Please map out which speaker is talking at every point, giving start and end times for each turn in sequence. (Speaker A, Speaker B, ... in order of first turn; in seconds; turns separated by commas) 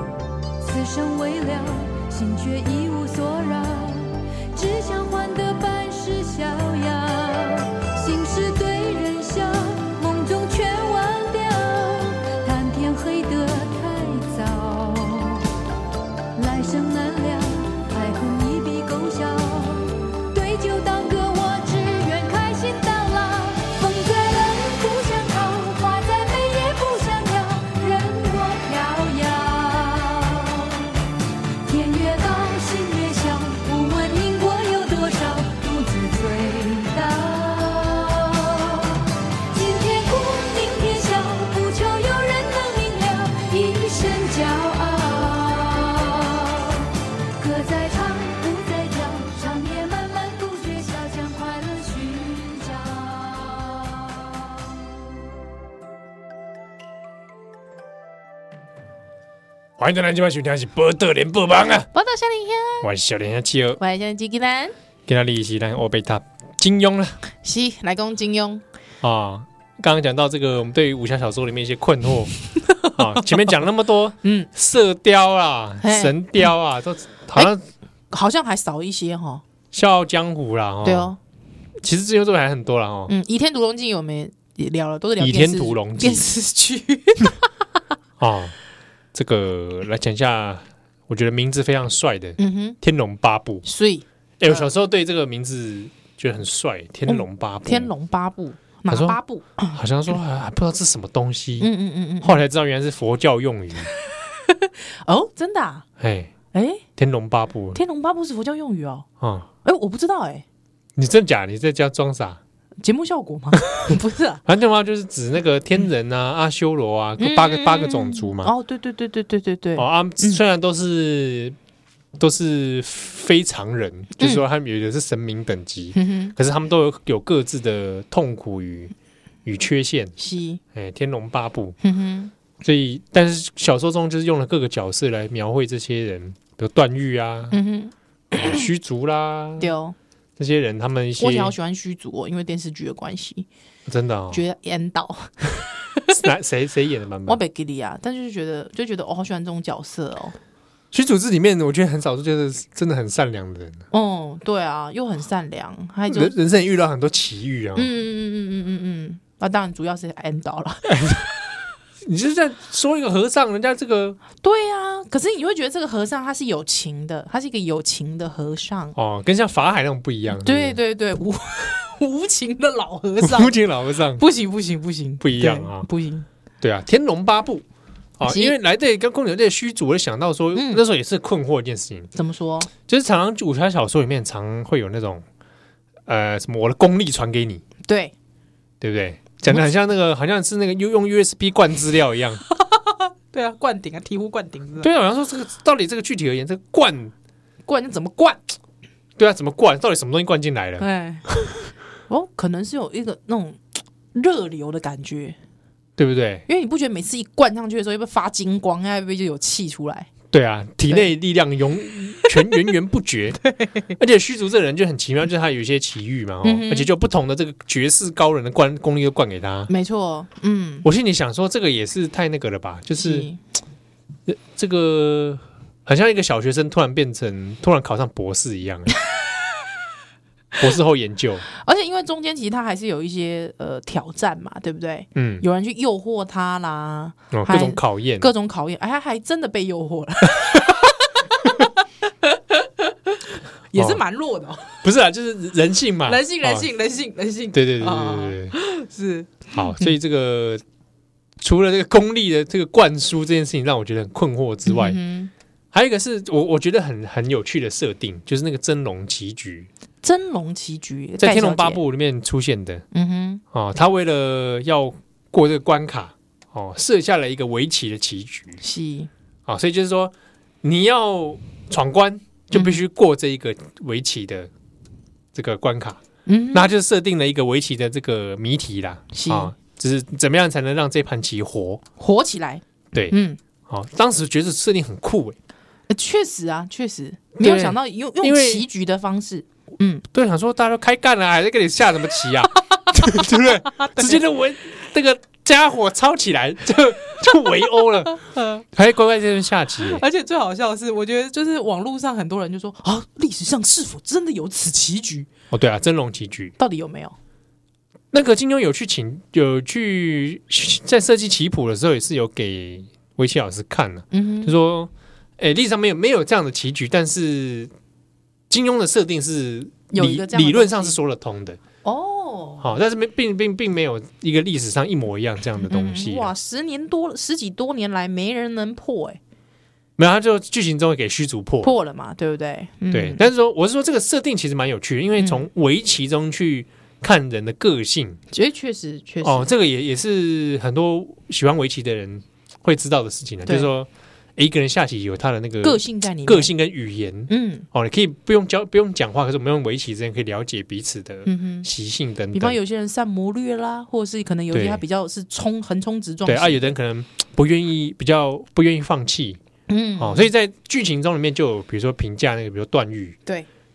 Speaker A: 0.6-15.5, Speaker A: 16.4-31.0, Speaker A: 31.6-54.4, Speaker B: 59.8-61.9, Speaker C: 61.9-62.9, Speaker B: 62.8-63.8, Speaker C: 63.8-64.8, Speaker B: 65.1-67.2, Speaker C: 67.4-68.6, Speaker B: 69.0-77.6, Speaker C: 74.2-74.5, Speaker C: 75.8-76.2, Speaker C: 78.1-79.4, Speaker B: 79.7-81.1, Speaker C: 80.8-81.2, Speaker B: 81.8-83.1, Speaker C: 83.1-87.5, Speaker B: 85.2-86.2, Speaker B: 88.2-88.5, Speaker B: 89.1-93.7, Speaker C: 92.4-92.8, Speaker C: 93.7-94.7, Speaker B: 94.4-97.9, Speaker C: 97.1-99.8, Speaker B: 98.9-99.2, Speaker B: 99.7-101.7, Speaker C: 101.6-102.4, Speaker B: 102.2-103.9, Speaker C: 104.3-105.8, Speaker B: 106.0-106.3, Speaker C: 106.5-106.8, Speaker B: 107.0-107.8, Speaker C: 107.8-109.1, Speaker B: 109.2-109.5, Speaker C: 109.6-110.5, Speaker B: 111.0-112.4, Speaker C: 112.8-114.4, Speaker B: 114.5-118.5, Speaker C: 117.2-120.4, Speaker B: 119.8-121.6, Speaker B: 122.2-128.9, Speaker C: 124.2-124.4, Speaker C: 126.0-126.3, Speaker B: 129.4-130.1, Speaker C: 130.2-130.6, Speaker B: 130.7-131.8, Speaker C: 131.8-132.3, Speaker B: 132.6-137.6, Speaker C: 137.5-138.7, Speaker B: 138.3-139.7, Speaker C: 139.6-140.0, Speaker B: 140.4-141.5, Speaker C: 141.2-143.5, Speaker B: 143.9-144.4, Speaker C: 144.3-146.2, Speaker B: 146.1-147.4, Speaker C: 147.3-150.4, Speaker B: 150.9-153.8, Speaker C: 153.9-156.3, Speaker B: 156.1-157.9, Speaker C: 157.8-161.3, Speaker B: 160.9-161.3, Speaker B: 162.1-164.2, Speaker C: 164.4-169.0, Speaker B: 169.0-170.8, Speaker C: 170.3-173.6, Speaker B: 173.2-174.2, Speaker C: 174.2-176.3, Speaker B: 175.2-175.9, Speaker B: 176.6-177.6, Speaker B: 178.2-182.1, Speaker C: 178.2-178.6, Speaker C: 180.6-180.8, Speaker C: 182.2-182.7, Speaker B: 182.8-185.2, Speaker B: 186.1-187.6, Speaker C: 187.8-188.1, Speaker B: 188.8-192.4, Speaker C: 192.5-194.9, Speaker B: 194.8-197.1, Speaker C: 197.7-198.4, Speaker B: 199.2-200.9, Speaker C: 200.8-201.3, Speaker C: 202.1-203.6, Speaker C: 204.1-205.4, Speaker B: 206.0-206.5, Speaker C: 206.5-210.1, Speaker B: 210.3-213.4, Speaker B: 213.9-219.7, Speaker C: 216.4-216.9, Speaker C: 219.7-220.9, Speaker B: 220.8-223.3, Speaker C: 223.0-223.4, Speaker B: 224.3-229.0, Speaker B: 230.6-231.4, Speaker C: 231.5-244.8, Speaker B: 235.2-235.4, Speaker B: 237.3-238.3, Speaker B: 243.8-244.0, Speaker B: 244.8-246.7, Speaker C: 246.1-249.9, Speaker B: 247.5-248.5, Speaker B: 249.5-250.6, Speaker B: 251.4-255.0, Speaker C: 254.7-255.3, Speaker B: 255.7-259.7, Speaker C: 260.0-261.8, Speaker B: 261.2-262.9, Speaker C: 262.9-263.4, Speaker B: 263.5-268.6, Speaker C: 268.6-269.1, Speaker B: 269.5-274.5, Speaker C: 272.5-272.8, Speaker B: 275.3-276.0, Speaker C: 276.3-276.7, Speaker B: 276.5-281.8, Speaker C: 279.1-279.5, Speaker C: 282.0-283.4, Speaker B: 282.9-285.4, Speaker C: 285.9-290.1, Speaker B: 287.4-288.6, Speaker B: 290.1-298.2, Speaker C: 292.7-294.2, Speaker C: 298.1-298.6, Speaker B: 298.7-300.0, Speaker C: 299.8-305.3, Speaker B: 305.5-306.6, Speaker C: 306.6-307.1, Speaker B: 308.1-317.7, Speaker C: 314.1-314.5, Speaker B: 318.5-321.6, Speaker C: 319.9-321.0, Speaker C: 321.8-322.6, Speaker B: 322.6-326.3, Speaker C: 325.6-329.2, Speaker B: 330.0-331.7, Speaker C: 331.6-333.3, Speaker B: 332.9-338.2, Speaker C: 335.2-335.5, Speaker C: 338.3-339.5, Speaker B: 339.2-352.6, Speaker C: 345.6-346.5, Speaker C: 347.3-347.7, Speaker C: 351.3-351.7, Speaker C: 352.3-356.7, Speaker B: 354.5-354.8, Speaker B: 356.3-359.4, Speaker C: 359.7-360.3, Speaker B: 360.0-363.2